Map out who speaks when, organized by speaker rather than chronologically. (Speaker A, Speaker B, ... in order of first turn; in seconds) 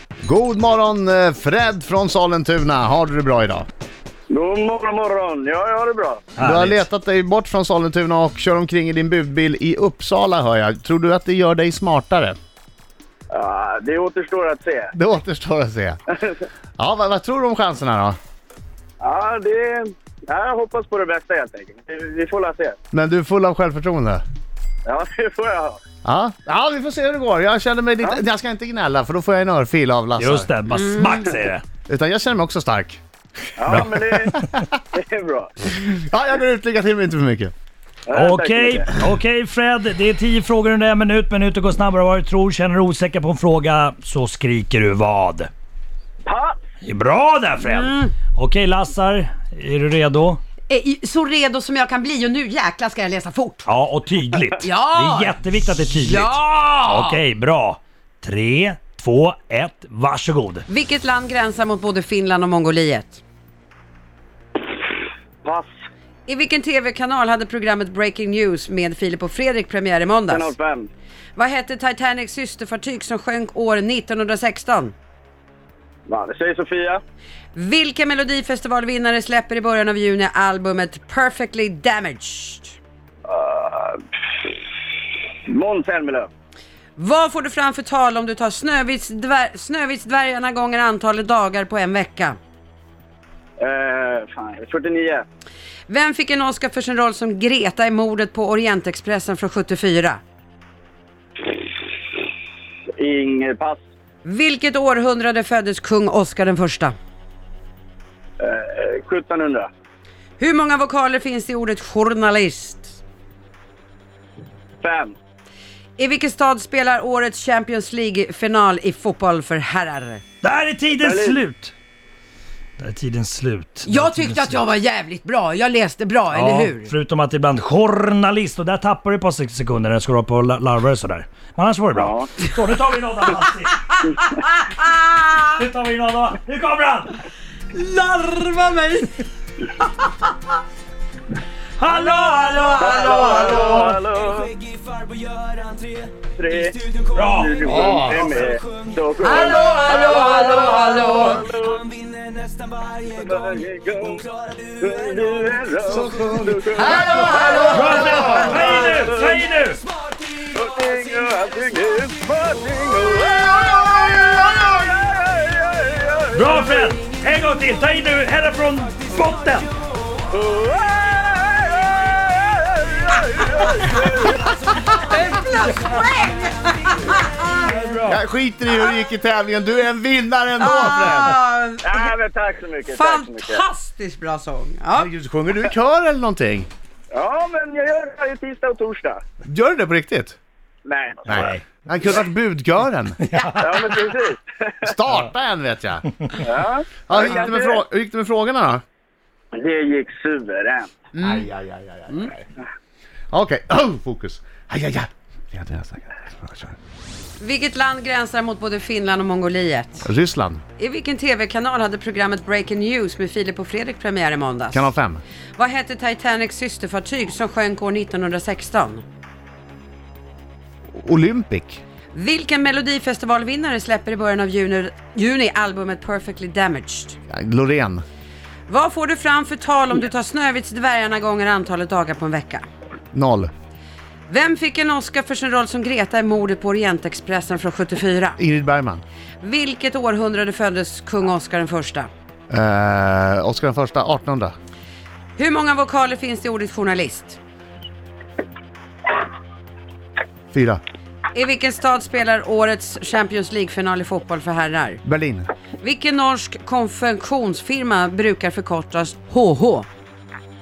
Speaker A: 0.2-3.6, 6.4-12.4, 14.9-16.0, 16.8-18.2, 22.9-24.2, 26.0-30.5, 31.9-33.0, 33.7-34.3, 35.8-37.5, 147.7-148.1, 155.9-158.6, 164.1-164.6, 178.0-181.4, 184.9-186.7, 189.4-190.4, 191.3-193.2, 194.8-196.3, 197.1-198.8, 201.2-202.4, 203.3-206.8, 210.0-210.6, 214.7-215.2, 220.9-221.8, 227.3-228.0, 233.1-233.5, 238.4-239.0, 242.5-244.5, 250.5-250.8, 255.0-255.5
Speaker B: 4.3-6.3, 13.3-14.9, 19.0-22.8, 24.9-25.8, 33.6-34.3, 34.9-35.6, 38.1-38.9, 46.2-46.6, 65.4-65.7, 70.3-70.9, 76.1-77.0, 83.2-84.5, 85.5-86.3, 93.6-95.2, 103.0-103.8, 108.4-109.7, 114.8-115.1, 121.0-121.4, 131.9-132.3, 142.8-144.5, 146.3-151.9, 153.0-154.3, 154.8-159.4, 160.4-166.9, 170.3-174.5, 181.8-183.6, 187.1-189.2, 190.8-191.5, 193.6-194.9, 196.4-197.8, 199.5-200.9
Speaker C: 6.3-6.8, 30.2-31.6, 33.7-34.4, 38.1-45.5, 46.8-50.4, 53.6-60.6, 120.4-121.7, 122.8-124.6, 126.3-133.8, 135.5-137.2, 141.8-144.0, 147.1-148.2, 157.7-159.8, 166.3-169.7, 177.5-178.2, 191.3-191.6, 193.2-193.7
Speaker D: 30.7-31.3, 47.6-48.1, 50.7-53.7, 54.6-57.2, 60.7-63.2, 66.3-70.5, 71.3-74.9, 77.5-82.8, 87.0-92.3, 95.9-100.2, 104.2-106.9, 110.4-113.0, 116.0-120.2, 123.8-126.9, 133.9-135.5, 137.7-139.2, 139.8-140.4, 141.8-143.9, 149.2-151.4, 156.8-158.6, 174.7-177.7, 180.6-182.1, 182.9-185.1, 193.3-193.6, 201.1-201.5, 207.4-210.1, 210.8-214.9, 215.6-219.0, 222.1-227.2, 228.7-232.6, 234.3-238.4, 239.4-242.1, 245.4-247.4, 251.3-255.0, 255.8-259.9
Speaker E: 145.0-146.1, 151.9-153.0